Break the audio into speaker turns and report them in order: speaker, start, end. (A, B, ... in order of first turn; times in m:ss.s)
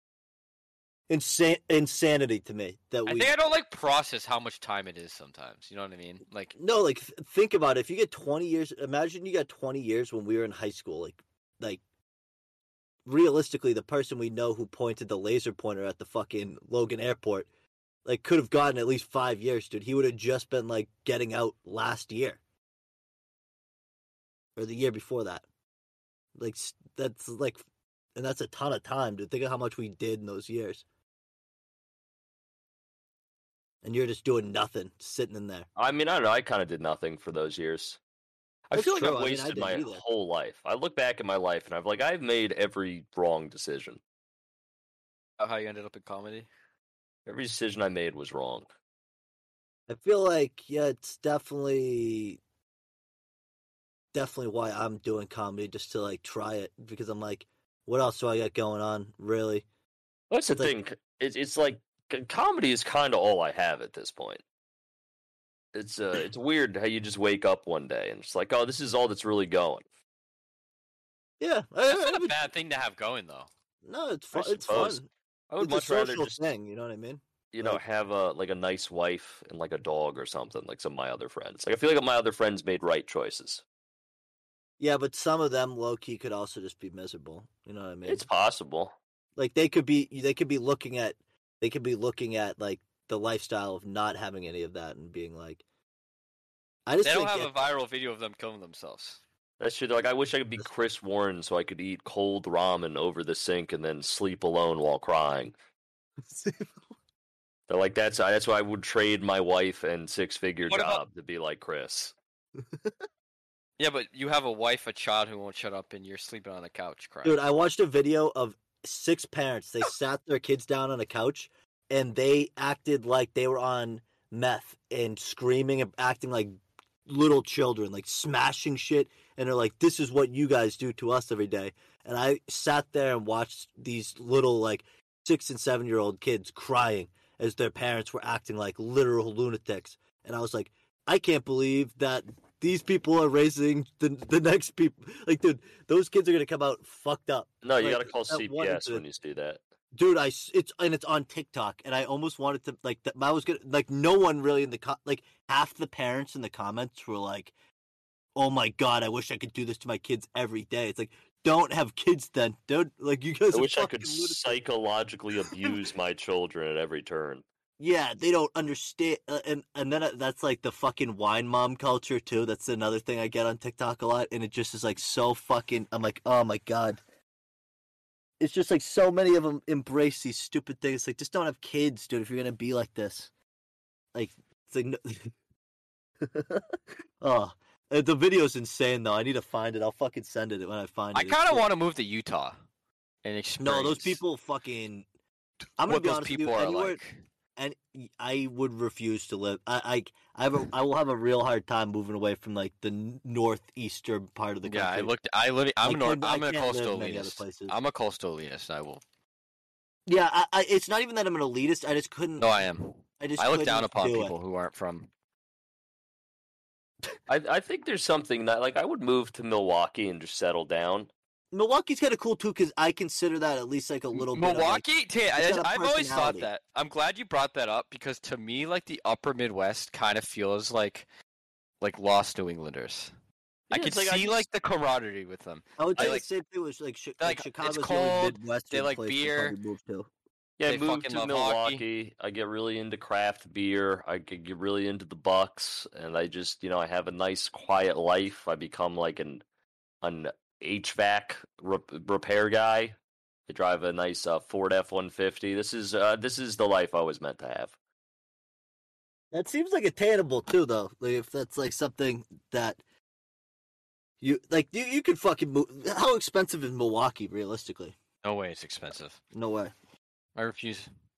0:01.1-0:03.3 A
0:03.1-0:06.5 B
0:06.6-0:11.8 A
0:13.1-0:17.5 A
0:18.0-0:22.4 A
0:24.6-0:25.4 A
0:26.4-0:27.6 A
0:28.2-0:30.8 A
0:33.8-0:35.7 A
0:35.8-0:38.0 C
0:38.7-0:44.0 C
0:38.7-0:40.0 A
0:45.4-0:46.5 B
0:47.3-0:48.7 C
0:49.9-0:52.4 A
0:54.1-0:59.6 A
1:00.3-1:04.4 C
1:05.7-1:09.8 C
1:11.4-1:12.4 A
1:11.9-1:13.5 B
1:13.8-1:15.1 A
1:14.3-1:16.4 C
1:15.6-1:17.8 A
1:17.5-1:23.6 C
1:24.8-1:28.2 A
1:28.1-1:29.0 C
1:29.4-1:35.6 A
1:36.9-1:37.5 A
1:37.0-1:39.2 B
1:39.6-1:45.5 C
1:46.3-1:46.7 A
1:47.7-1:52.1 C
1:50.6-1:51.0 B
1:53.8-1:57.4 B
1:57.2-2:06.6 A
2:07.1-2:29.0 A
2:27.6-2:29.6 C
2:29.9-2:37.5 A
2:38.4-2:44.6 A
2:43.5-2:47.4 C
2:47.8-2:57.0 A
2:58.4-3:03.3 A
3:04.1-3:05.3 A
3:06.2-3:11.6 A
3:11.1-3:12.6 B
3:13.2-3:14.2 B
3:13.6-3:15.0 A
3:15.8-3:17.0 A
3:15.9-3:17.2 B
3:17.6-3:25.1 A
3:24.6-3:29.0 B
3:25.8-3:27.8 A
3:30.1-3:32.5 A
3:32.4-3:35.1 B
3:33.2-3:34.3 A
3:37.3-3:41.1 C
3:41.5-3:46.5 A
3:44.1-3:51.1 B
3:51.8-3:53.1 B
3:53.7-3:54.4 C
3:53.7-3:56.2 B
3:55.8-4:00.1 A
3:57.2-3:59.6 B
4:00.6-4:09.4 C
4:00.7-4:01.8 B
4:10.0-4:13.0 C
4:13.5-4:17.7 C
4:19.3-4:22.8 A
4:24.2-4:28.0 A
4:28.2-4:29.2 B
4:29.3-4:29.7 A
4:30.4-4:30.9 B